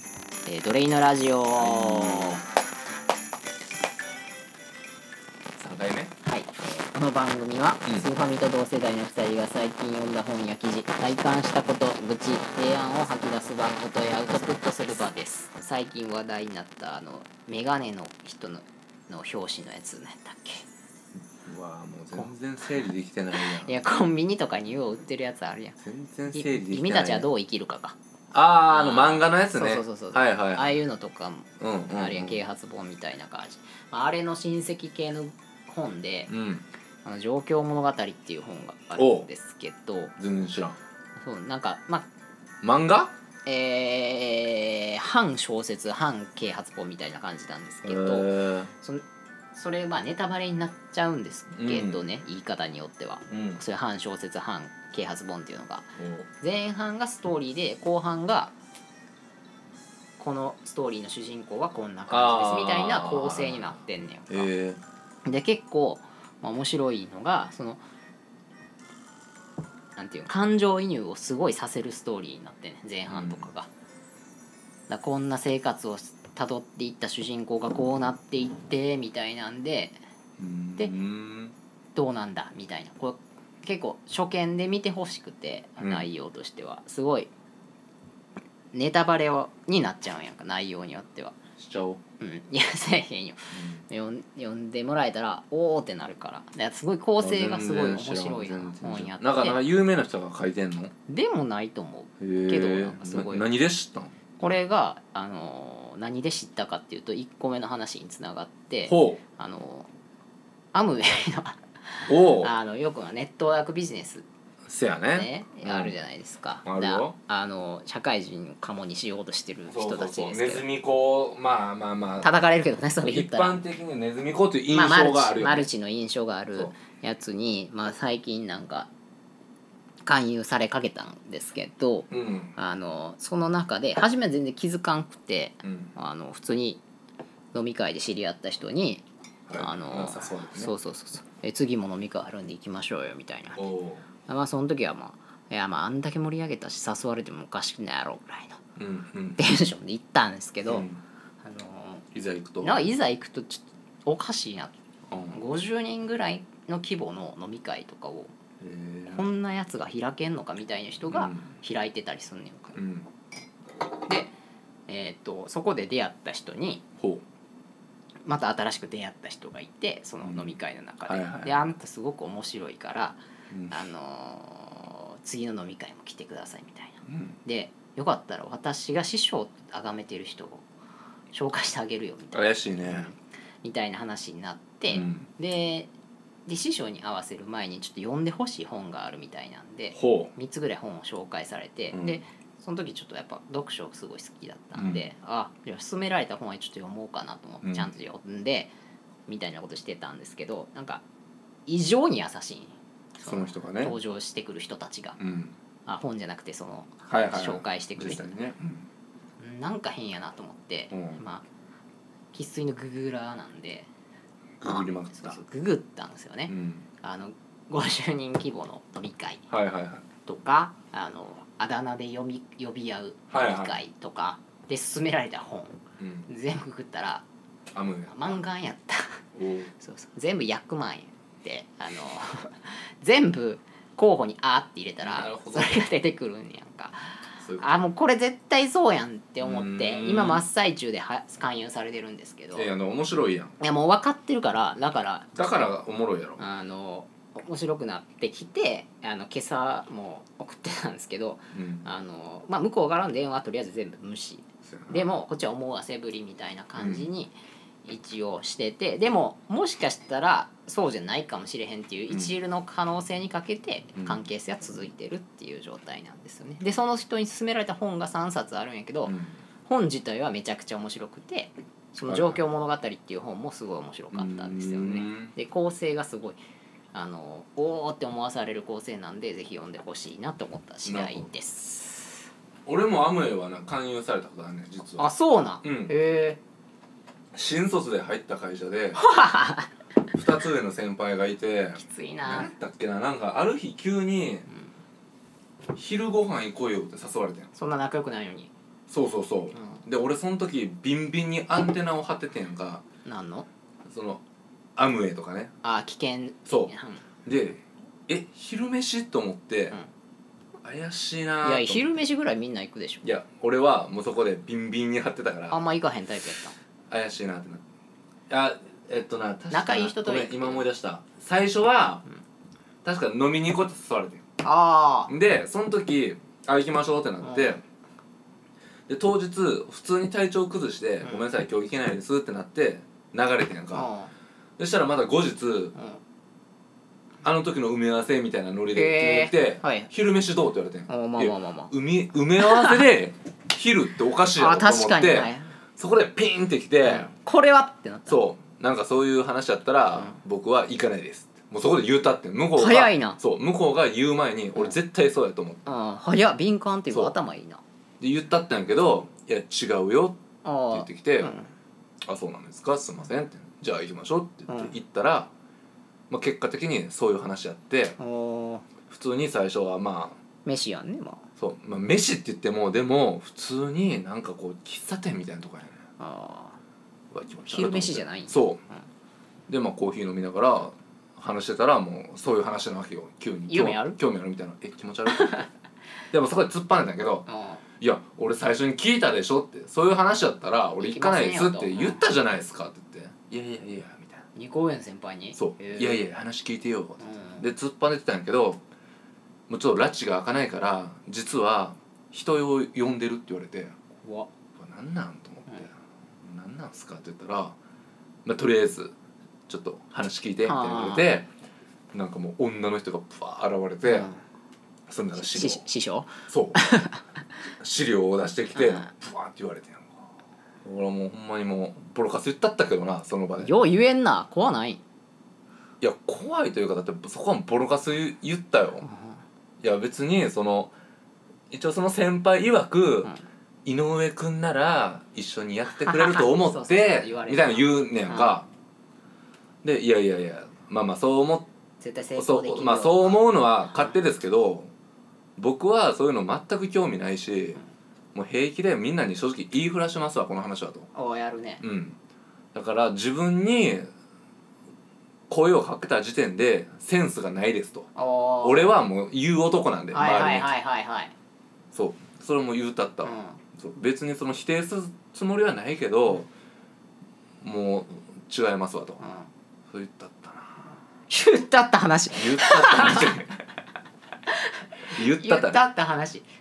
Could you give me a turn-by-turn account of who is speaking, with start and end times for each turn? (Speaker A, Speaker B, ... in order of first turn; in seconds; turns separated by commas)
Speaker A: 0.5-2.4, Speaker B: 1.6-2.5, Speaker B: 5.6-6.1, Speaker A: 6.2-20.6, Speaker B: 21.4-23.8, Speaker A: 23.3-28.0, Speaker B: 25.8-27.3, Speaker B: 28.3-30.8, Speaker A: 28.7-36.3, Speaker B: 31.6-32.4, Speaker B: 36.3-36.7, Speaker A: 37.0-40.1, Speaker B: 39.0-39.3, Speaker B: 40.2-40.8, Speaker A: 41.2-42.1, Speaker B: 42.6-43.1, Speaker A: 43.5-49.0, Speaker B: 47.8-48.7, Speaker A: 49.5-58.5, Speaker B: 51.5-52.0, Speaker B: 53.3-53.6, Speaker B: 56.0-56.3, Speaker A: 60.2-64.5, Speaker B: 62.1-63.8, Speaker B: 64.3-64.8, Speaker A: 65.2-67.8, Speaker A: 70.0-73.7, Speaker B: 73.1-73.5, Speaker A: 74.9-80.0, Speaker B: 80.4-81.5, Speaker A: 82.0-87.3, Speaker B: 85.8-86.1, Speaker A: 88.7-91.3, Speaker B: 91.6-92.0, Speaker A: 92.2-99.6, Speaker B: 93.5-93.8, Speaker B: 97.2-100.9, Speaker A: 101.1-103.5, Speaker B: 102.2-104.2, Speaker A: 104.4-109.9, Speaker B: 108.9-109.2, Speaker A: 110.7-114.3, Speaker B: 112.1-112.5, Speaker B: 114.7-116.0, Speaker A: 115.1-120.7, Speaker B: 116.6-117.2, Speaker B: 119.7-122.4, Speaker A: 122.2-123.6, Speaker B: 123.0-125.7, Speaker A: 124.7-128.9, Speaker A: 130.1-136.8, Speaker B: 132.1-132.5, Speaker B: 135.6-135.9, Speaker A: 137.5-143.7, Speaker B: 139.5-140.7, Speaker B: 143.6-144.1, Speaker A: 144.3-148.6, Speaker B: 148.8-149.4, Speaker A: 149.4-150.9, Speaker B: 150.7-151.0, Speaker A: 151.4-152.1, Speaker B: 152.1-152.9, Speaker A: 152.6-154.8, Speaker B: 155.1-155.4, Speaker A: 155.3-158.3, Speaker B: 158.6-159.3, Speaker A: 159.1-162.8, Speaker B: 161.1-161.5, Speaker B: 162.8-163.1, Speaker A: 164.1-164.3, Speaker A: 164.9-166.8, Speaker A: 168.2-180.7, Speaker B: 170.2-170.6, Speaker B: 171.1-171.7, Speaker B: 173.5-173.8, Speaker B: 177.1-177.4, Speaker A: 181.3-185.9, Speaker B: 182.3-183.1, Speaker B: 184.9-185.3, Speaker A: 186.5-198.7, Speaker B: 189.9-190.3, Speaker B: 191.9-192.2, Speaker B: 194.8-195.1, Speaker B: 197.6-197.9, Speaker A: 199.3-201.0, Speaker A: 201.7-205.2, Speaker B: 203.2-204.0, Speaker B: 205.2-205.6, Speaker A: 205.8-208.4, Speaker B: 207.1-208.9, Speaker A: 209.4-211.4, Speaker B: 210.9-211.2, Speaker A: 212.3-213.9, Speaker B: 214.6-215.4, Speaker A: 214.6-219.5, Speaker B: 216.5-216.9, Speaker B: 219.5-220.1, Speaker A: 220.2-227.2, Speaker B: 223.3-223.8, Speaker B: 226.0-226.3, Speaker B: 227.7-228.4, Speaker A: 228.1-229.2, Speaker B: 229.3-229.7, Speaker A: 229.8-242.7, Speaker B: 235.0-235.9, Speaker B: 237.4-237.8, Speaker B: 239.4-240.4, Speaker B: 242.5-243.6, Speaker A: 243.6-245.7, Speaker B: 245.4-246.4, Speaker A: 246.4-257.3, Speaker B: 251.5-251.9, Speaker B: 254.7-255.1, Speaker B: 256.8-257.1, Speaker A: 257.8-276.4, Speaker B: 269.1-269.4, Speaker B: 272.1-272.4, Speaker B: 274.1-275.4, Speaker A: 276.9-282.2, Speaker B: 280.8-281.3, Speaker B: 282.7-285.1, Speaker A: 285.0-286.4, Speaker B: 285.6-285.9, Speaker B: 287.3-289.0, Speaker A: 289.0-289.7, Speaker B: 290.1-294.5, Speaker A: 291.8-292.5, Speaker B: 295.7-297.5, Speaker A: 297.5-298.5, Speaker B: 298.9-302.8, Speaker A: 299.5-299.8, Speaker A: 303.1-303.5, Speaker B: 303.9-304.2, Speaker B: 304.8-305.5, Speaker A: 305.6-307.1, Speaker B: 306.5-306.7, Speaker B: 307.2-309.8, Speaker B: 310.6-312.0, Speaker A: 311.4-313.1, Speaker B: 313.0-315.6, Speaker A: 315.5-316.6, Speaker B: 316.9-317.6, Speaker B: 318.3-322.0, Speaker A: 319.5-320.7, Speaker B: 322.9-324.2, Speaker A: 324.4-325.1, Speaker B: 325.1-327.6, Speaker A: 327.2-327.6, Speaker B: 328.9-333.9, Speaker A: 331.0-331.3, Speaker A: 333.7-334.1, Speaker B: 334.6-335.8, Speaker A: 335.8-336.0, Speaker B: 337.2-347.1, Speaker A: 338.7-339.9, Speaker A: 340.9-341.7, Speaker A: 342.4-342.9, Speaker A: 344.3-345.5, Speaker A: 346.9-348.2, Speaker B: 348.1-355.6, Speaker A: 352.6-353.2, Speaker A: 355.7-357.6, Speaker B: 358.0-360.2, Speaker A: 360.4-361.5, Speaker B: 360.7-361.3, Speaker B: 362.1-365.3, Speaker A: 364.5-364.7, Speaker B: 366.1-368.0, Speaker A: 368.0-368.7, Speaker B: 368.9-370.2, Speaker A: 370.4-371.3, Speaker B: 371.4-375.8, Speaker A: 376.0-376.6, Speaker B: 377.1-378.6, Speaker A: 377.5-378.8, Speaker B: 379.5-385.4, Speaker A: 383.5-384.0, Speaker A: 385.2-385.5, Speaker B: 386.1-387.3, Speaker A: 387.3-387.6, Speaker B: 387.8-394.2, Speaker A: 390.8-392.0, Speaker A: 394.4-396.0, Speaker B: 395.4-398.6, Speaker A: 397.0-397.5, Speaker B: 399.5-403.8, Speaker A: 404.0-404.3, Speaker B: 404.6-407.6, Speaker B: 408.2-409.0, Speaker B: 409.5-411.3, Speaker A: 410.4-411.1, Speaker B: 411.9-414.1, Speaker A: 413.8-414.2, Speaker B: 414.9-415.7, Speaker A: 415.1-417.0, Speaker B: 416.3-416.9, Speaker B: 417.6-420.1, Speaker A: 418.6-418.9, Speaker B: 420.6-423.6, Speaker A: 423.4-424.8, Speaker B: 425.8-428.9, Speaker A: 428.9-429.2, Speaker B: 429.6-430.7, Speaker B: 431.5-433.1, Speaker B: 433.6-438.5, Speaker A: 435.7-438.4, Speaker B: 439.6-441.5, Speaker A: 441.8-444.0, Speaker B: 442.2-444.7, Speaker B: 445.4-447.6, Speaker B: 448.1-450.9, Speaker A: 450.9-451.6, Speaker B: 451.6-452.0, Speaker B: 452.5-453.9, Speaker B: 455.3-457.9, Speaker A: 457.9-458.8, Speaker B: 458.4-460.5, Speaker A: 459.9-461.1, Speaker B: 461.7-466.3, Speaker A: 463.0-463.4, Speaker B: 467.4-469.0, Speaker A: 469.0-469.3, Speaker B: 469.7-470.7, Speaker A: 471.1-473.2, Speaker B: 472.1-473.3, Speaker A: 474.3-476.3, Speaker B: 474.9-475.6